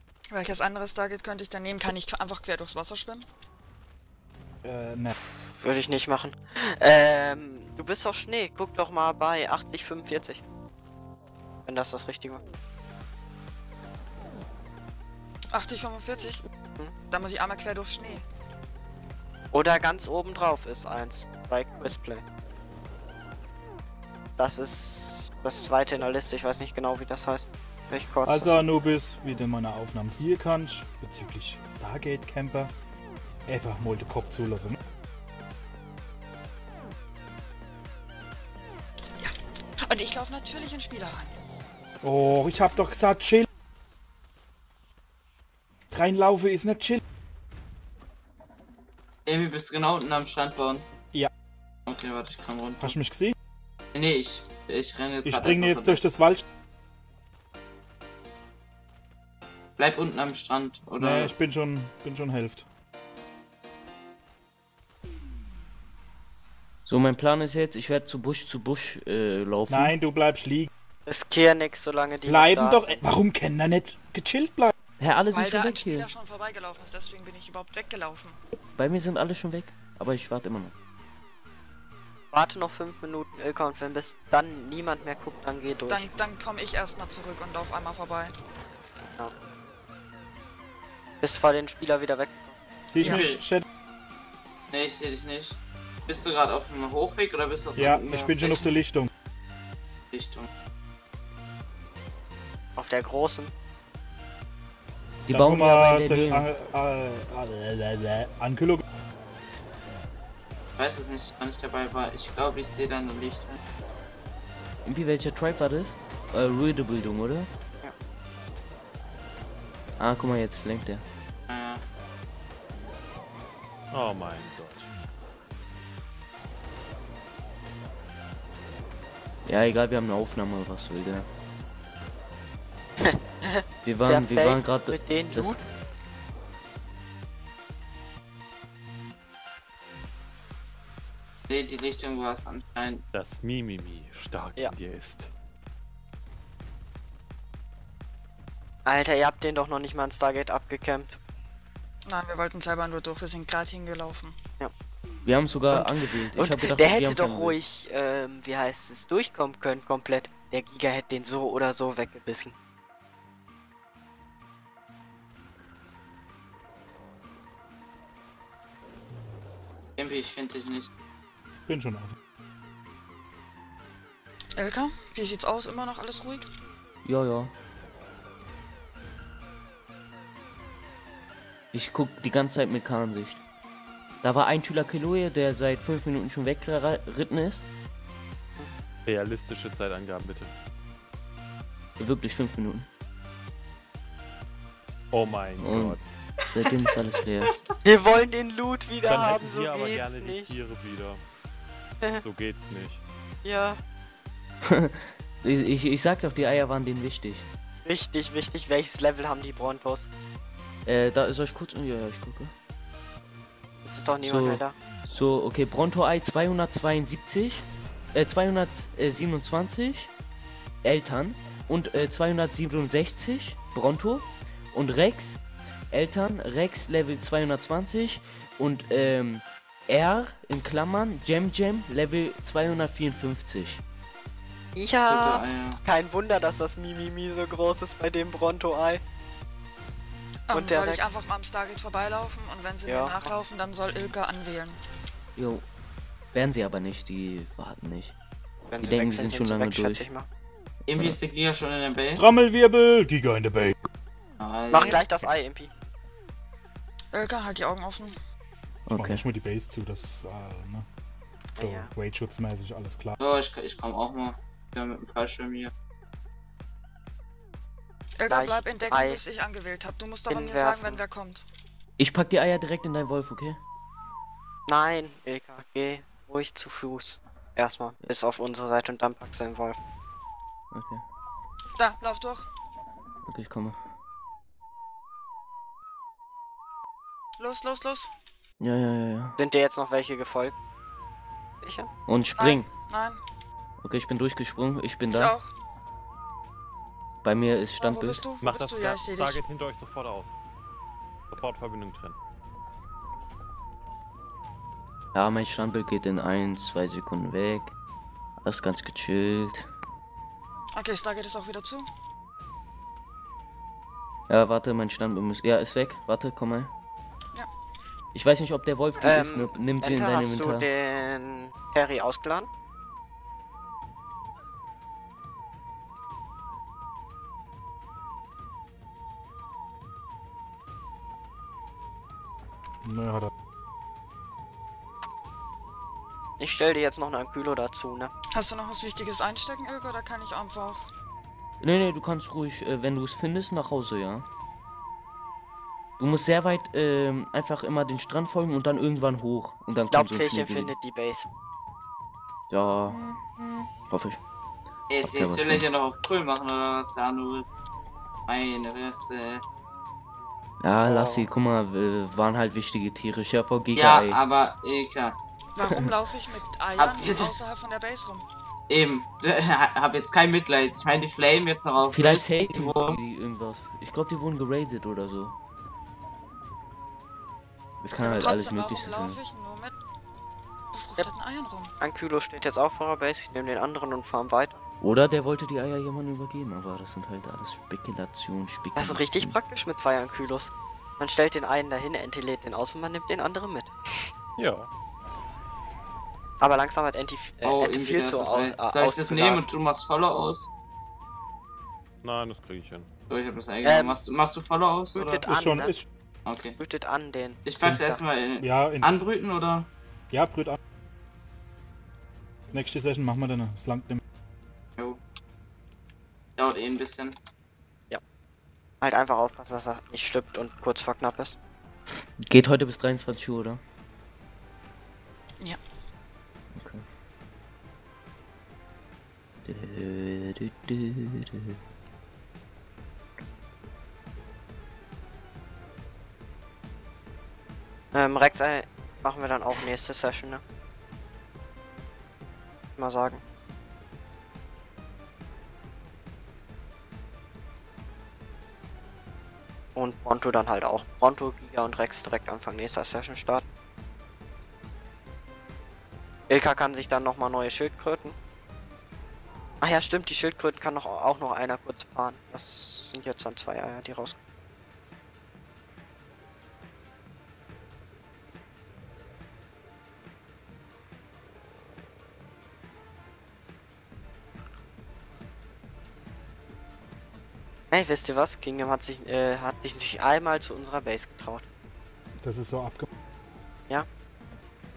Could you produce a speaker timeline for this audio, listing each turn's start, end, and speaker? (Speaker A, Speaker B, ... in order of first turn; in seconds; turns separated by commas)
Speaker A: 0.3-3.3, Speaker B: 4.6-5.2, Speaker C: 5.4-10.4, Speaker C: 11.7-12.4, Speaker A: 15.5-16.4, Speaker A: 17.1-18.2, Speaker C: 19.5-22.2, Speaker C: 24.4-28.6, Speaker B: 28.3-32.7, Speaker B: 33.5-34.8, Speaker A: 39.2-41.4, Speaker B: 42.0-43.5, Speaker B: 45.9-47.0, Speaker D: 49.3-51.0, Speaker D: 51.9-52.9, Speaker B: 52.8-53.4, Speaker D: 53.9-56.1, Speaker B: 55.2-56.4, Speaker D: 59.8-61.3, Speaker B: 61.0-62.7, Speaker E: 66.9-70.0, Speaker B: 69.7-70.7, Speaker C: 71.1-73.0, Speaker B: 72.2-74.7, Speaker E: 75.0-76.1, Speaker A: 75.3-78.4, Speaker E: 78.8-80.7, Speaker C: 82.3-86.1, Speaker A: 85.9-88.4, Speaker C: 91.2-92.6, Speaker B: 92.9-93.7, Speaker D: 93.0-93.4, Speaker D: 94.7-98.7, Speaker B: 97.8-99.1, Speaker D: 100.1-100.5, Speaker C: 102.8-103.5, Speaker E: 105.3-106.5, Speaker B: 105.3-108.8, Speaker D: 110.8-113.6, Speaker E: 114.8-117.5, Speaker E: 120.0-121.0, Speaker D: 121.5-121.8, Speaker F: 123.9-124.9, Speaker E: 129.5-131.3, Speaker C: 133.1-135.6, Speaker E: 133.8-135.6, Speaker D: 141.5-143.0, Speaker F: 143.1-145.3, Speaker C: 148.8-151.2, Speaker A: 152.1-154.4, Speaker E: 155.2-157.6, Speaker C: 155.7-162.6, Speaker D: 170.0-170.9, Speaker B: 171.7-172.2, Speaker A: 174.6-176.4, Speaker E: 177.1-177.5, Speaker E: 181.7-183.4, Speaker E: 184.2-187.7, Speaker F: 189.1-190.5, Speaker E: 192.0-192.9, Speaker F: 195.1-196.1, Speaker E: 195.6-196.0, Speaker E: 196.5-197.5, Speaker C: 197.8-200.5, Speaker F: 199.0-201.2, Speaker F: 202.2-203.0, Speaker C: 203.4-203.8, Speaker E: 204.7-207.5, Speaker C: 207.8-210.1, Speaker E: 210.9-212.5, Speaker C: 213.8-214.8, Speaker E: 214.3-220.1, Speaker E: 220.8-225.4, Speaker E: 225.9-233.8, Speaker C: 234.8-239.0, Speaker D: 235.1-235.8, Speaker A: 240.5-244.8, Speaker C: 240.5-241.2, Speaker C: 242.9-243.3, Speaker E: 245.4-245.6, Speaker E: 246.3-248.1, Speaker C: 248.7-250.3, Speaker E: 248.8-250.0, Speaker D: 250.9-252.3, Speaker B: 252.2-253.8, Speaker D: 254.4-255.2, Speaker C: 254.7-255.7, Speaker A: 257.1-258.2, Speaker E: 258.9-259.2, Speaker B: 258.9-260.9, Speaker C: 261.6-261.9, Speaker B: 261.6-263.2, Speaker D: 263.2-265.7, Speaker A: 268.2-271.5, Speaker C: 268.3-269.2, Speaker C: 270.3-271.0, Speaker E: 272.0-273.6, Speaker C: 274.7-279.8, Speaker E: 280.7-281.0, Speaker A: 281.8-282.5, Speaker E: 283.3-283.8, Speaker A: 287.4-288.1, Speaker E: 288.6-289.4, Speaker C: 289.4-290.5, Speaker C: 291.6-291.9, Speaker E: 292.1-292.7, Speaker A: 292.4-293.2, Speaker E: 293.8-295.3, Speaker A: 295.1-295.5, Speaker E: 297.2-298.2, Speaker A: 297.8-299.4, Speaker F: 298.4-300.4, Speaker F: 301.3-302.2, Speaker E: 305.1-307.7, Speaker E: 308.4-309.7, Speaker A: 310.8-311.9, Speaker E: 314.3-316.7, Speaker E: 318.1-320.7, Speaker C: 319.0-322.5, Speaker B: 332.8-333.3, Speaker C: 336.4-338.1, Speaker A: 338.3-340.9, Speaker E: 341.6-344.3, Speaker E: 346.0-350.7, Speaker C: 349.9-351.3, Speaker E: 352.5-353.1, Speaker E: 353.9-354.2, Speaker D: 354.9-357.6, Speaker E: 355.0-355.6, Speaker D: 358.3-359.4, Speaker E: 360.6-364.2, Speaker C: 360.9-361.3, Speaker D: 363.8-365.1, Speaker A: 365.6-368.3, Speaker D: 366.8-367.3, Speaker D: 368.7-373.0, Speaker E: 371.9-375.4, Speaker E: 377.8-379.2, Speaker A: 378.0-379.8, Speaker A: 380.7-381.7, Speaker C: 381.8-384.6, Speaker E: 384.8-389.4, Speaker C: 388.8-394.1, Speaker F: 394.4-394.7, Speaker C: 396.4-399.4, Speaker D: 397.4-400.5, Speaker F: 402.0-402.9, Speaker D: 403.1-405.2, Speaker C: 403.6-404.0, Speaker C: 404.9-405.7, Speaker B: 405.2-405.9, Speaker D: 406.3-406.6, Speaker C: 406.6-408.0, Speaker D: 407.4-409.7, Speaker B: 408.4-408.9, Speaker B: 410.1-410.6, Speaker B: 412.5-414.0, Speaker D: 416.4-417.1, Speaker C: 418.8-421.4, Speaker E: 422.2-423.6, Speaker E: 426.5-426.9, Speaker E: 429.4-431.6, Speaker C: 437.9-440.4, Speaker C: 442.8-443.2, Speaker C: 449.8-453.4, Speaker C: 456.3-458.1, Speaker C: 459.6-464.2, Speaker C: 477.7-481.4, Speaker B: 482.2-482.9